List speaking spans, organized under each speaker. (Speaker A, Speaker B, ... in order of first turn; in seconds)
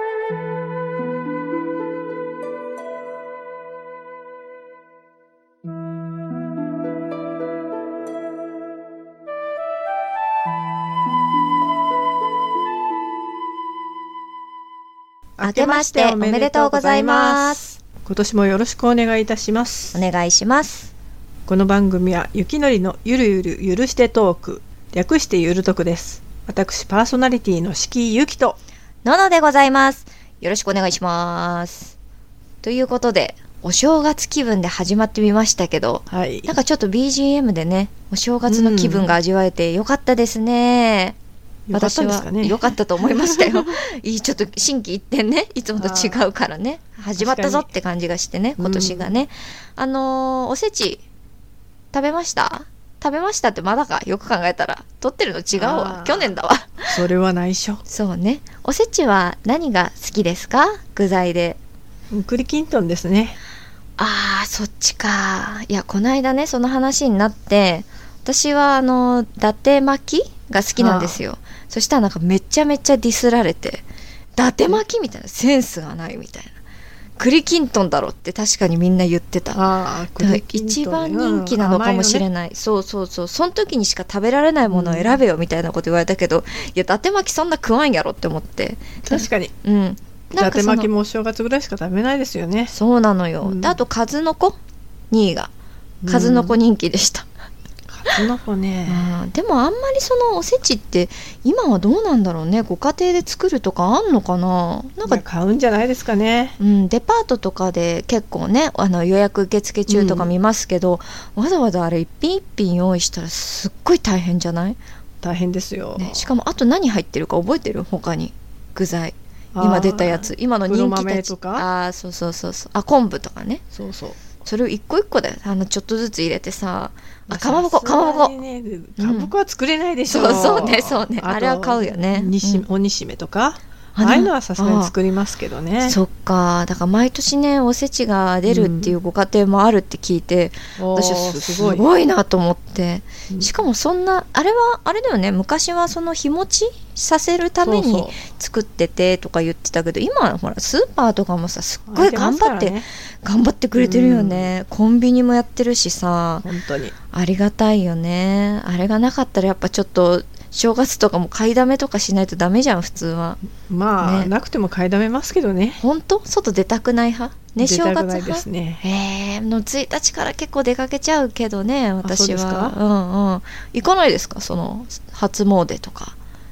Speaker A: 15.4-20.0, 21.5-28.6, 36.1-36.5, 38.5-39.1, 41.7-43.8, 45.8-46.2, 47.2-47.7, 48.6-49.1, 55.5-56.3, 56.8-57.8, 62.1-63.4, 70.8-71.2, 79.5-82.2, 84.7-85.2, 89.0-89.5, 90.4-92.7, 93.4-93.8, 96.0-96.5, 97.9-99.1, 105.0-106.6, 109.9-110.3, 115.2-116.3, 119.5-121.6, 123.7-124.2, 127.3-136.0, 138.5-138.9, 140.8-141.8, 147.6-148.2, 151.9-152.8, 153.8-154.5, 156.4-156.9, 163.6-165.8, 167.6-168.8, 172.0-172.8
Speaker B: 15.4-17.6, 19.9-20.9, 29.0-31.9, 32.6-41.2, 41.7-51.0, 51.9-56.8, 57.9-61.6, 64.0-73.8, 74.4-76.6, 77.2-79.6, 80.2-90.9, 92.7-94.6, 95.1-95.5, 96.1-97.3, 98.9-105.2, 106.6-114.8, 116.0-123.6, 124.4-128.3, 129.0-129.3, 130.1-132.6, 133.9-134.9, 135.8-156.4, 157.1-163.4, 164.0-164.3, 165.8-176.2